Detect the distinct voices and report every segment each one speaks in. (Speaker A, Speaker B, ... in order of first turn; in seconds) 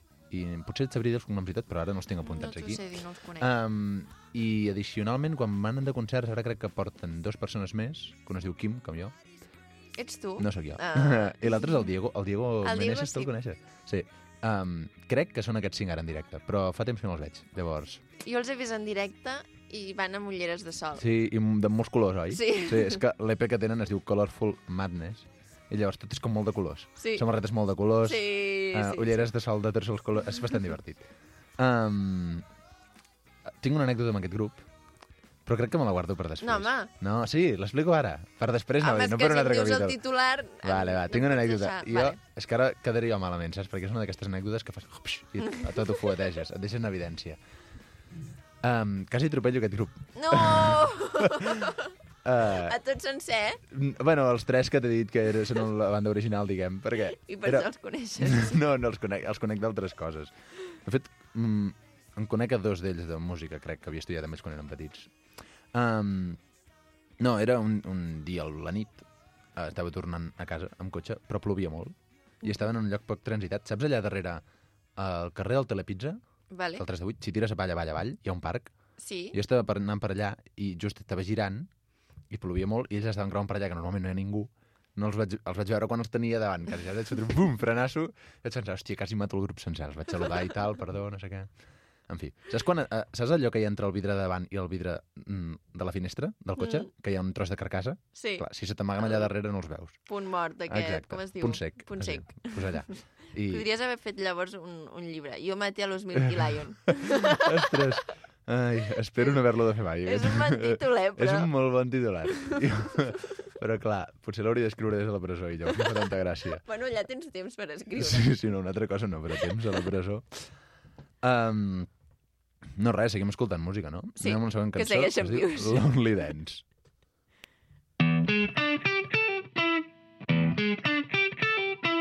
Speaker A: 0.3-2.9, 3.4-9.1, 10.4-18.0, 21.0-31.1, 31.6-32.4, 33.6-34.6, 35.5-40.0, 40.6-47.4, 48.6-50.9, 52.2-52.8, 53.7-57.7, 58.2-60.3, 60.8-65.1, 65.7-66.4, 67.2-74.4, 75.0-76.2, 76.8-78.7, 79.3-81.7, 82.3-91.5, 92.1-100.0, 100.7-103.7, 107.3-116.6, 118.0-120.3, 121.2-121.9, 122.8-126.6
Speaker B: 2.2-3.5, 10.0-11.7, 12.6-13.3, 18.2-21.1, 22.3-23.0, 27.0-27.2, 28.0-29.3, 36.4-36.9, 38.8-42.2, 50.1-51.9, 52.6-53.6, 57.2-58.6, 76.5-76.8, 79.0-79.4, 96.6-96.9, 98.1-98.4, 99.0-99.3, 100.1-102.8, 103.4-107.7, 110.0-111.5, 112.4-112.6, 116.6-118.3, 124.2-125.9